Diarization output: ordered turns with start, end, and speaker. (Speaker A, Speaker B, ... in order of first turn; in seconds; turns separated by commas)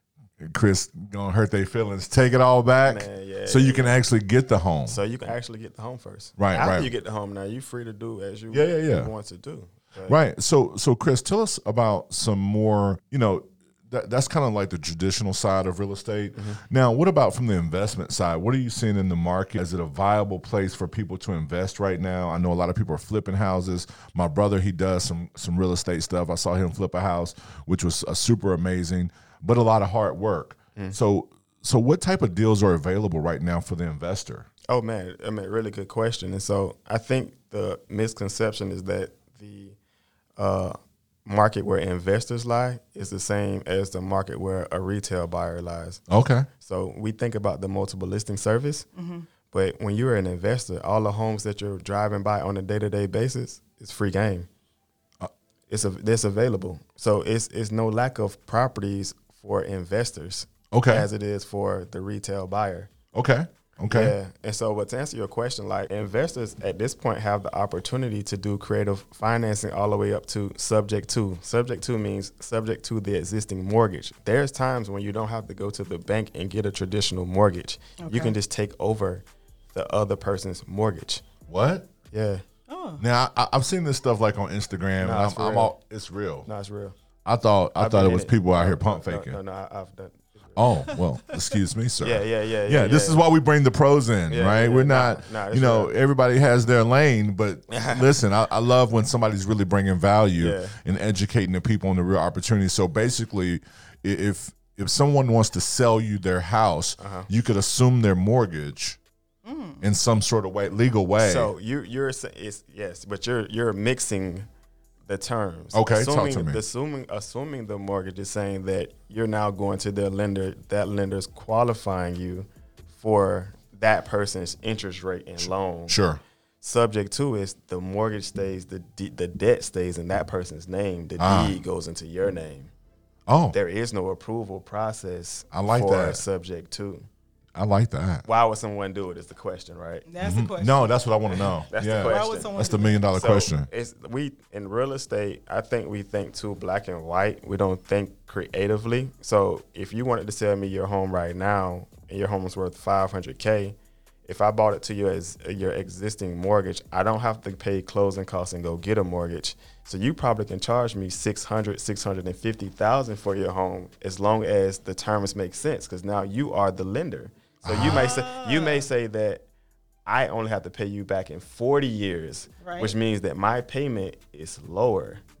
Speaker A: 0.4-5.0, Speaker B: 2.8-4.0, Speaker B: 4.9-10.2, Speaker A: 6.4-6.9, Speaker A: 8.5-9.1, Speaker A: 10.1-34.5, Speaker B: 16.3-16.6, Speaker B: 34.7-39.8, Speaker B: 40.4-46.0, Speaker A: 46.1-46.5, Speaker B: 46.6-48.9, Speaker C: 48.9-49.2, Speaker B: 49.5-54.5, Speaker B: 55.7-62.9, Speaker A: 60.7-61.1, Speaker A: 63.1-64.1, Speaker B: 63.9-81.2, Speaker C: 78.0-78.3, Speaker A: 81.5-81.9, Speaker B: 82.1-82.4, Speaker C: 82.7-83.0, Speaker A: 83.0-86.5, Speaker B: 85.0-85.7, Speaker B: 86.4-86.9, Speaker A: 87.2-89.4, Speaker B: 87.8-90.7, Speaker A: 90.5-109.0, Speaker B: 92.0-93.2, Speaker B: 94.3-95.9, Speaker B: 97.7-98.1, Speaker B: 100.4-100.8, Speaker B: 107.0-107.3, Speaker C: 109.4-109.8, Speaker A: 109.8-111.5, Speaker B: 111.2-114.5, Speaker B: 115.1-126.0, Speaker A: 115.7-116.6, Speaker A: 125.4-126.2, Speaker B: 126.6-132.7, Speaker A: 131.2-131.5, Speaker A: 133.3-133.6, Speaker B: 133.5-137.1, Speaker A: 135.5-136.2, Speaker A: 137.5-138.2, Speaker B: 138.2-140.1, Speaker C: 140.1-140.9, Speaker A: 140.2-143.7, Speaker B: 141.3-169.4, Speaker C: 141.9-143.0, Speaker A: 167.6-168.1, Speaker C: 167.8-168.9, Speaker B: 170.1-175.2, Speaker C: 172.6-172.9